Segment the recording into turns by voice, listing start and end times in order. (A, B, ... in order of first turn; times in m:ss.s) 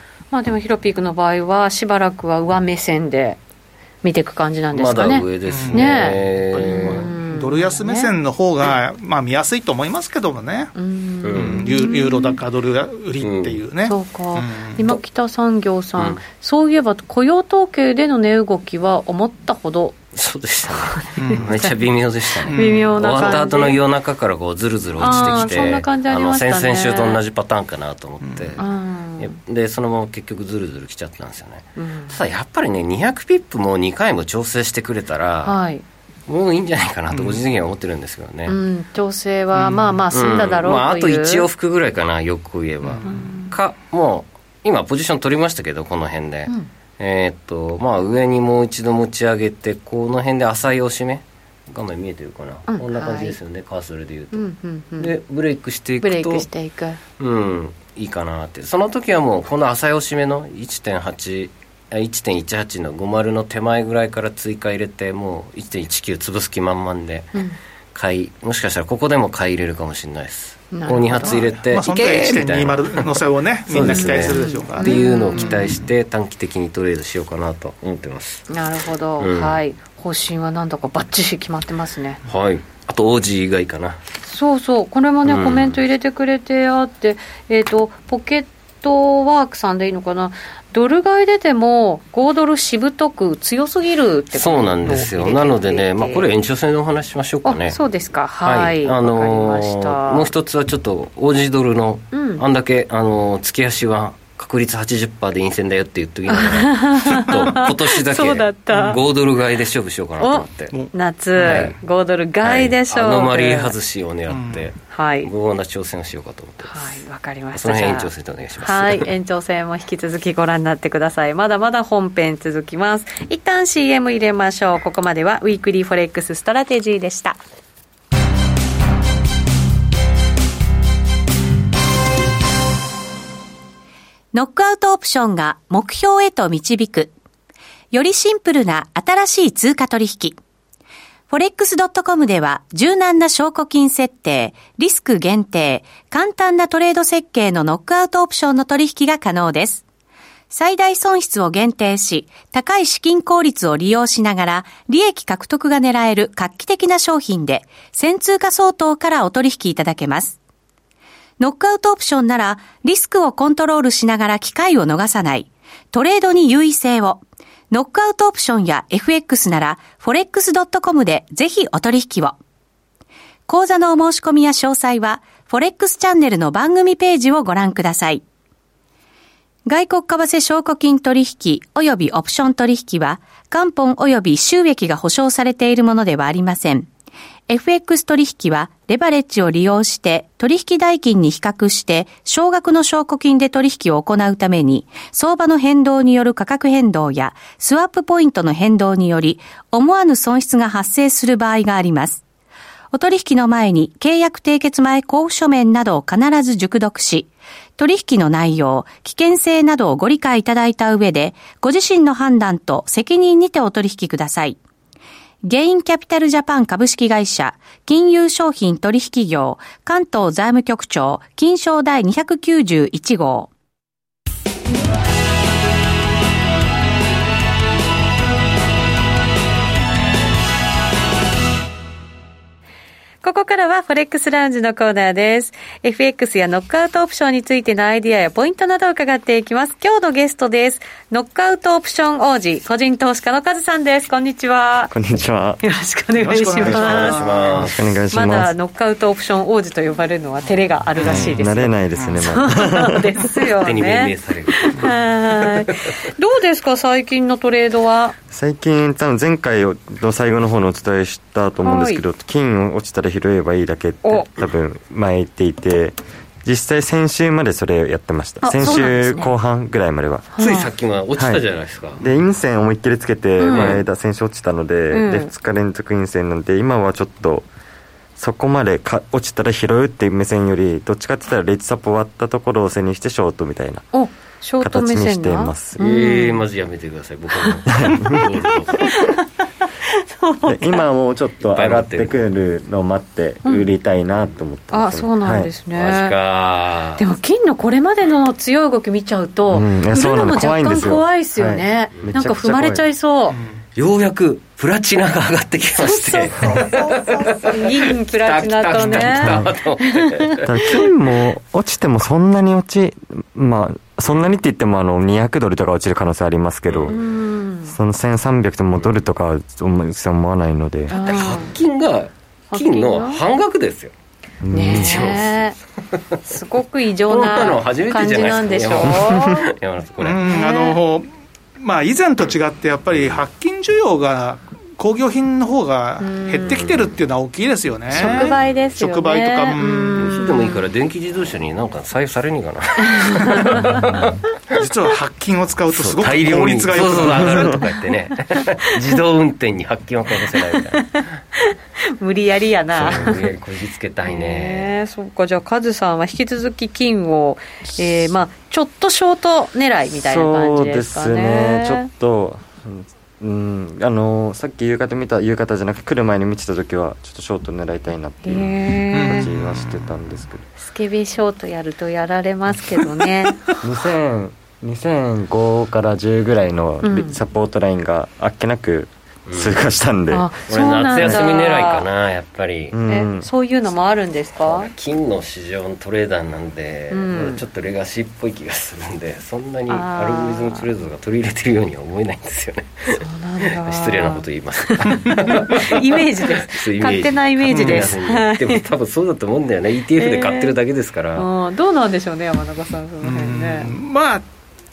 0:00.3-0:03.4 A
0:04.0-0:08.1 A
0:04.7-0:07.1 B
0:05.5-0:10.7 C
0:10.7-0:12.4 A
0:11.2-0:11.7 B
0:11.3-0:14.8 C
0:13.2-0:13.6 B
0:13.8-0:20.0 A
0:20.1-0:28.6 B
0:20.8-0:21.8 A
0:21.2-0:21.5 C
0:22.4-0:23.8 A
0:22.4-0:23.4 C
0:25.0-0:27.2 A
0:28.2-0:28.6 C
0:28.6-0:29.3 A
0:29.2-0:35.6 B
0:31.8-0:32.2 A
0:35.4-0:35.8 A
0:36.3-0:38.6 B
0:37.1-0:37.4 C
0:38.5-0:41.4 A
0:39.5-0:40.0 C
0:40.1-0:54.4 B
0:42.8-0:43.2 C
0:43.0-0:43.5 A
0:52.7-0:53.4 A
0:54.3-0:55.1 A
0:55.0-0:56.4 B
0:56.0-0:57.0 A
0:57.2-1:07.4 B
1:07.9-1:18.5 B
1:10.7-1:11.4 A
1:11.1-1:15.8 C
1:13.8-1:15.7 A
1:18.5-1:22.2 A
1:19.2-1:19.6 B
1:22.2-1:24.0 B
1:24.2-1:36.3 A
1:25.2-1:25.8 B
1:34.3-1:37.8 B
1:37.4-1:40.3 A
1:38.4-1:50.8 B
1:42.1-1:42.4 A
1:46.3-1:49.0 A
1:50.2-1:53.7 A
1:50.7-1:51.7 C
1:51.4-1:51.7 B
1:52.4-1:57.0 B
1:54.3-1:54.7 C
1:54.9-1:55.3 A
1:56.6-2:07.4 A
1:57.5-1:59.1 B
2:14.3-2:17.1 D
2:17.9-2:20.4 D
2:21.3-2:29.8 D
2:30.5-2:40.4 D
2:41.4-2:52.4 D
2:53.5-2:58.2 D
2:59.6-3:06.9 D
3:07.5-3:22.2 D
3:22.9-3:34.6 D
3:35.4-3:43.5 D
3:53.2-4:04.9 A
4:04.9-4:05.6 E
4:05.6-4:07.3 A
4:06.2-4:07.7 C
4:06.6-4:08.0 B
4:07.6-4:08.5 E
4:08.1-4:18.1 A
4:11.0-4:11.4 C
4:11.0-4:13.1 E
4:11.9-4:12.2 C
4:13.6-4:15.7 B
4:18.3-4:30.3 E
4:21.6-4:22.0 A
4:24.0-4:24.3 A
4:28.4-4:29.3 A
4:30.3-4:30.7 A
4:30.4-4:32.0 B
4:31.2-4:31.4 E
4:32.0-4:37.5 E
4:33.4-4:33.8 A
4:33.5-4:33.8 B
4:34.9-4:35.3 A
4:38.2-4:43.9 E
4:43.9-4:46.4 A
4:44.6-4:45.8 E
4:45.8-4:49.0 B
4:47.7-4:48.3 E
4:48.1-4:49.2 A
4:49.8-4:50.8 A
4:50.4-4:55.5 E
4:51.5-4:52.2 B
4:54.7-4:56.1 A
4:55.7-4:57.0 B
4:57.0-5:03.4 A
4:59.5-5:02.8 E
5:03.8-5:10.8 B
5:05.8-5:10.9 A
5:09.1-5:09.5 E
5:10.4-5:17.0 E
5:16.7-5:16.9 B
5:16.9-5:17.7 A
5:17.6-5:20.9 E
5:20.9-5:21.5 A
5:20.9-5:23.9 B
5:22.5-5:23.2 A
5:24.4-5:25.1 E
5:24.5-5:25.6 A
5:24.6-5:26.3 B
5:26.2-5:29.5 A
5:27.1-5:30.3 B
5:30.0-5:31.0 C
5:30.3-5:30.8 A
5:31.6-5:40.2 C
5:36.0-5:36.6 A
5:36.5-5:36.9 B
5:37.9-5:40.6 A
5:37.9-5:38.5 B
5:40.0-5:44.6 B
5:42.8-5:43.8 A
5:44.6-5:47.6 C
5:45.7-5:51.0 B
5:50.8-5:53.3 A
5:52.7-5:54.8 B
5:54.1-6:01.9 A
5:59.9-6:10.5 E
6:08.2-6:09.3 A
6:08.9-6:09.9 C
6:10.6-6:13.4 A
6:13.6-6:20.3 E
6:16.8-6:17.2 A
6:19.2-6:19.6 B
6:20.1-6:21.8 A
6:20.5-6:22.8 B
6:22.7-6:23.3 E
6:22.9-6:24.7 A
6:24.4-6:41.3 B
6:26.9-6:27.4 A
6:29.7-6:30.6 A
6:32.9-6:38.6 A
6:37.5-6:37.9 C
6:40.0-6:40.5 A
6:41.1-6:43.7 A
6:43.0-6:44.2 C